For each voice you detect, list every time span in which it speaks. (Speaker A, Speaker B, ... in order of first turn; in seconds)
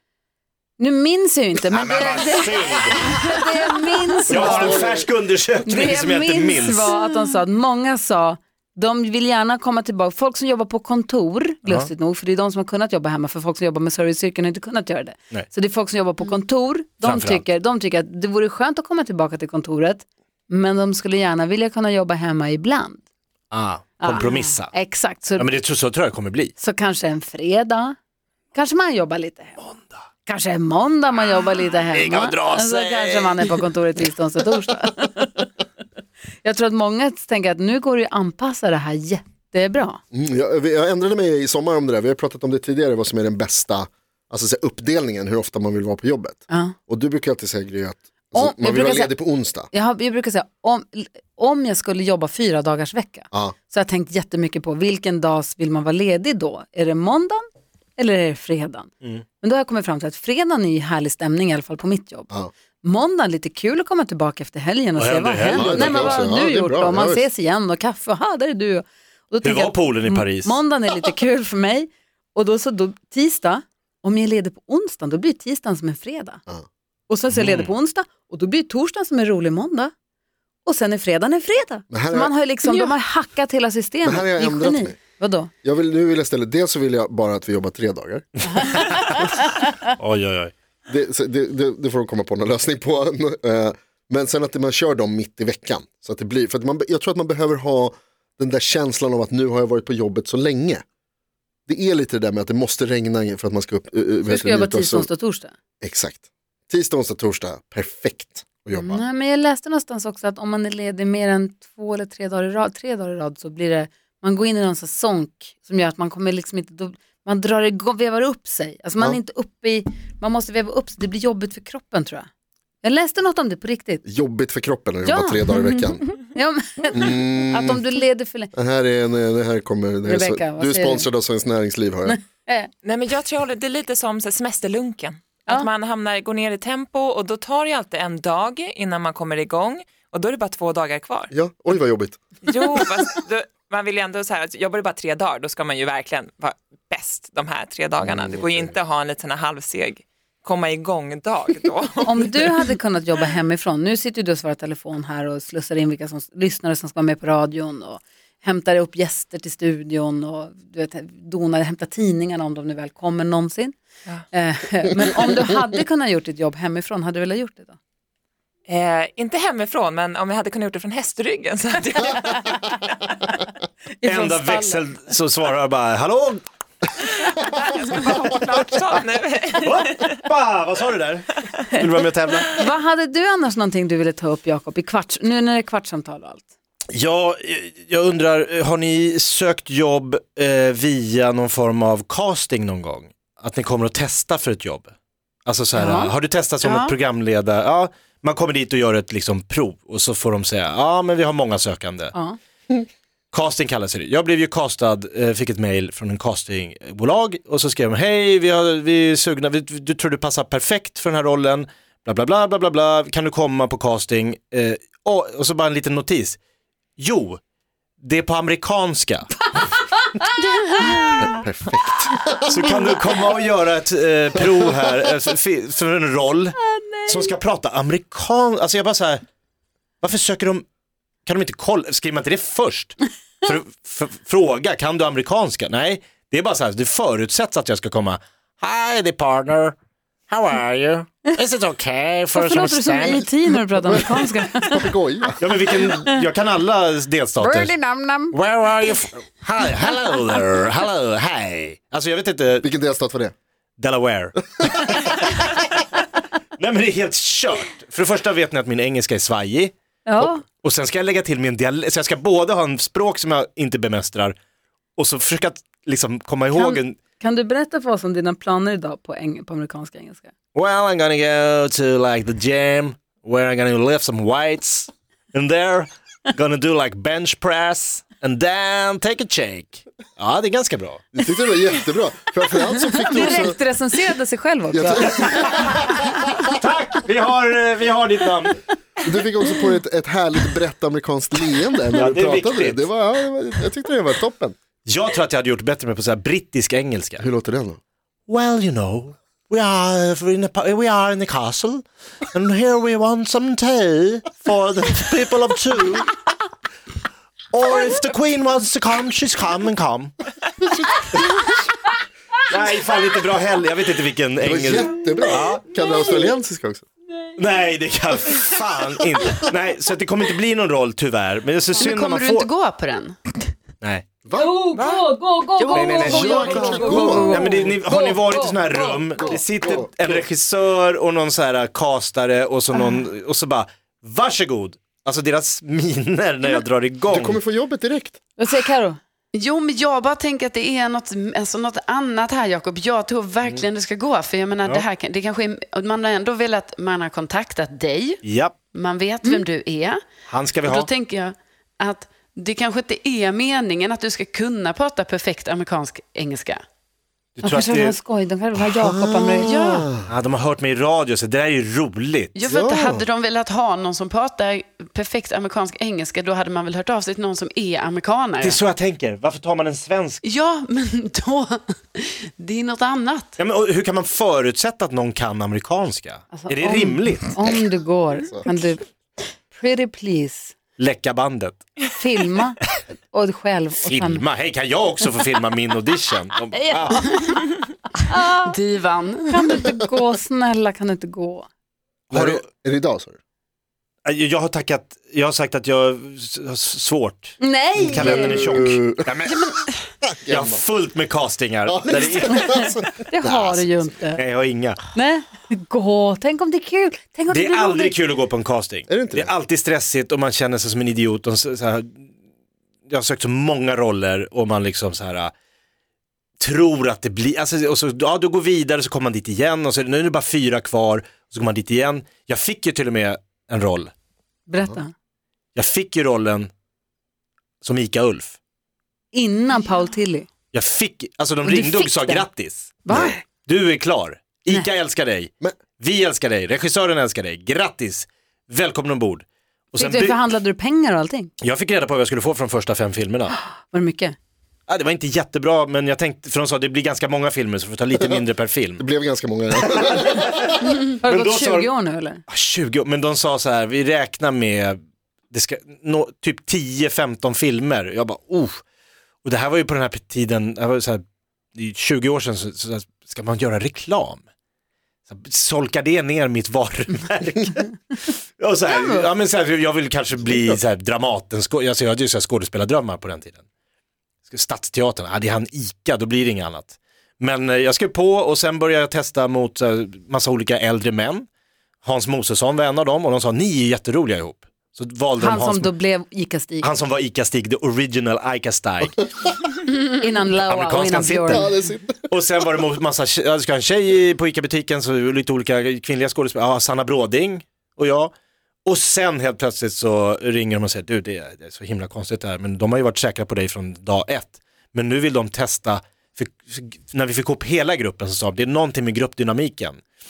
Speaker A: 0.8-4.9, 5.6-23.0, 24.0-25.6, 26.6-28.0, 28.5-29.6, 30.3-35.5, 36.4-40.0, 46.5-46.8, 48.4-49.1, 49.7-57.5, 58.0-62.3, 62.8-76.4, 77.1-79.9, 80.7-85.5, 88.6-89.7, 104.3-105.5, 108.7-122.3, 122.8-124.0, 125.0-128.5, 130.1-131.1, 132.1-132.7, 152.0-163.8, 164.3-167.8, 174.0-174.8, 182.5-186.5, 195.7-196.1, 219.5-221.4, 222.6-223.0, 226.6-227.3, 242.3-244.9, 245.7-246.2, 247.4-248.4, 260.1-260.4, 266.6-270.3, 283.1-285.8, 315.8-316.2, 324.3-329.0, 338.4-339.0, 357.4-359.6, 376.3-378.8, 379.5-380.6, 381.9-384.2, 386.5-387.4, 387.9-388.6, 389.3-391.5, 397.4-398.7, 402.4-404.2, 404.9-408.0, 424.5-424.9, 429.1-430.3, 431.4-432.3, 432.9-433.2, 439.8-441.3, 443.6-444.1, 451.0-452.2, 485.2-486.7, 489.7-491.7
Speaker B: 1.7-3.3, 4.3-6.9, 17.0-17.4, 23.5-24.7, 25.4-26.5, 29.6-30.0, 31.8-33.5, 65.0-66.2, 69.4-70.5, 77.3-77.7, 88.8-89.2, 90.0-90.5, 174.1-176.4, 179.6-182.6, 186.9-194.9, 195.5-202.1, 203.3-216.4, 217.0-217.4, 218.0-219.3, 222.5-226.6, 227.1-229.2, 230.0-230.7, 231.3-239.8, 240.3-243.2, 245.4-247.7, 248.3-252.7, 253.8-255.7, 256.6-259.7, 260.5-264.4, 265.0-267.0, 270.6-281.0, 285.2-288.6, 292.0-292.9, 294.9-297.2, 298.3-306.1, 307.5-310.1, 312.5-315.7, 317.4-322.5, 323.8-324.1, 325.7-326.2, 327.2-337.4, 348.2-348.6, 350.3-350.9, 357.4-358.0, 360.1-362.4, 368.4-370.2, 373.4-377.3, 380.8-381.6, 383.8-387.1, 392.1-392.4, 394.1-399.4, 400.3-402.6, 404.2-404.8, 407.3-412.1, 412.9-415.3, 416.4-423.9, 425.6-426.5, 427.6-428.4, 430.5-440.2, 441.4-443.4, 444.7-448.8, 449.9-450.5, 451.0-451.7, 452.3-454.8, 455.3-458.6, 459.2-461.0, 461.6-464.2, 465.1-467.8, 468.4-473.4, 474.3-481.3, 481.8-485.7, 486.6-489.0, 490.5-491.5, 492.1-498.1, 498.6-509.8
Speaker C: 4.3-4.9, 40.1-49.7, 65.5-67.2, 81.9-82.3, 84.0-85.0, 85.6-88.3, 90.9-100.8, 101.7-105.1, 105.8-109.0, 124.0-126.0, 126.9-127.8, 128.5-132.2, 141.3-142.2, 148.0-148.8, 221.2-222.3, 243.8-245.4, 252.6-253.3, 281.1-283.6, 284.7-286.0, 289.0-294.6, 297.2-297.8, 314.4-316.9, 324.2-324.5, 326.0-327.4, 329.2-330.2, 337.1-338.2, 358.8-360.1, 362.4-363.1, 378.2-378.7, 392.1-393.2, 397.8-399.1, 400.0-400.6, 401.7-403.8, 408.9-409.3, 447.9-448.2, 448.8-450.5, 491.3-492.0
Speaker D: 132.8-141.3, 142.4-152.4, 168.7-173.0, 177.2-180.2, 324.7-325.0
Speaker E: 196.6-196.9, 220.4-221.2, 321.8-323.2, 325.6-327.5, 339.3-348.2, 348.7-350.0, 350.6-356.6, 359.4-359.9, 362.3-368.6, 370.2-373.4, 387.0-387.3, 388.4-389.4, 399.3-399.8